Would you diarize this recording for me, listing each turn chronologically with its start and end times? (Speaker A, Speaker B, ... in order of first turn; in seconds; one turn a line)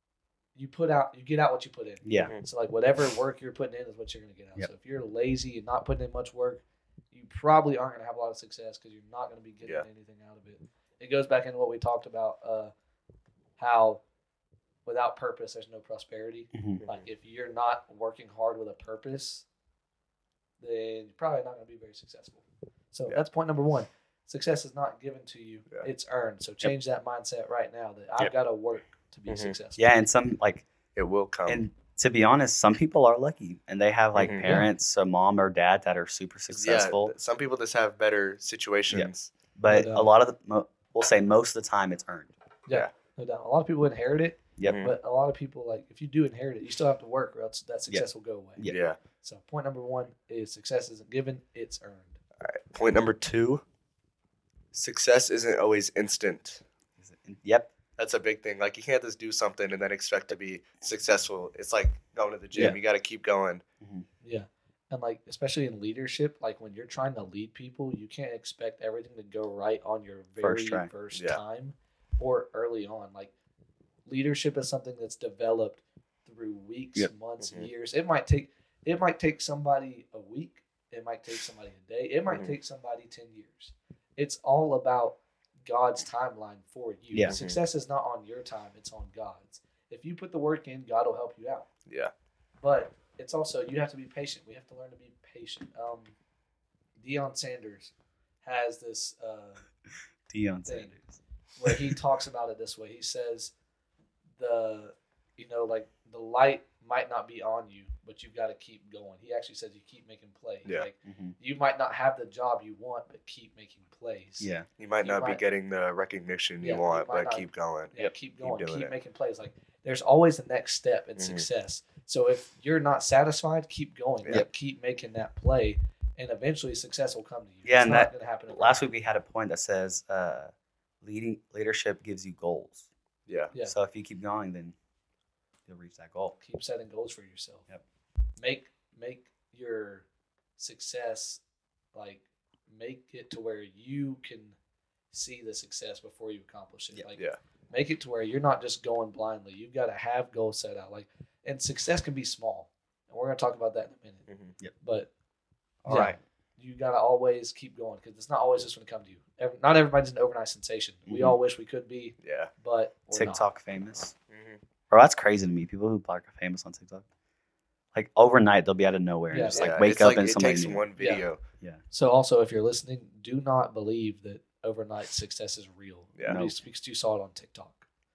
Speaker A: 0.6-12.7
Speaker B: 2.0-2.3
Speaker A: 13.6-14.0
Speaker A: 14.8-19.4
Speaker B: 16.5-16.8
Speaker A: 20.6-29.9
Speaker C: 29.3-29.6
Speaker B: 29.8-30.6
Speaker C: 30.9-31.6
Speaker B: 31.5-37.1
Speaker C: 34.2-34.5
Speaker C: 36.5-39.3
Speaker B: 38.9-42.3
Speaker A: 39.7-40.1
Speaker A: 42.7-52.2
Speaker C: 44.6-44.9
Speaker C: 48.7-49.0
Speaker C: 52.4-53.6
Speaker C: 54.7-56.6
Speaker B: 57.0-57.7
Speaker C: 58.0-63.6
Speaker B: 63.8-64.1
Speaker A: 64.2-73.3
Speaker B: 70.4-70.9
Speaker C: 71.1-71.4
Speaker A: 74.1-91.7
Speaker C: 77.4-77.7
Speaker C: 87.3-87.6
Speaker A: 92.6-96.1
Speaker A: 97.0-97.9
Speaker A: 98.4-99.6
Speaker B: 100.3-101.2
Speaker A: 101.6-103.5
Speaker A: 104.4-114.5
Speaker B: 111.0-111.4
Speaker B: 114.4-114.7
Speaker C: 114.8-118.9
Speaker A: 115.0-115.4
Speaker A: 116.6-128.8
Speaker C: 121.2-121.5
Speaker B: 127.6-132.9
Speaker C: 133.3-133.5
Speaker B: 133.6-134.8
Speaker B: 135.7-136.3
Speaker A: 136.4-137.7
Speaker A: 138.4-140.1
Speaker A: 140.6-141.4
Speaker A: 141.9-144.6
Speaker A: 145.1-154.2
Speaker C: 154.3-154.5
Speaker A: 154.8-155.1
Speaker B: 155.8-156.2
Speaker A: 155.9-163.5
Speaker B: 161.1-161.4
Speaker C: 162.2-162.5
Speaker B: 163.1-164.1
Speaker C: 164.3-164.6
Speaker B: 164.9-167.0
Speaker B: 167.9-170.8
Speaker A: 169.3-169.7
Speaker C: 169.5-171.4
Speaker A: 171.0-171.2
Speaker A: 171.9-177.9
Speaker B: 176.3-176.6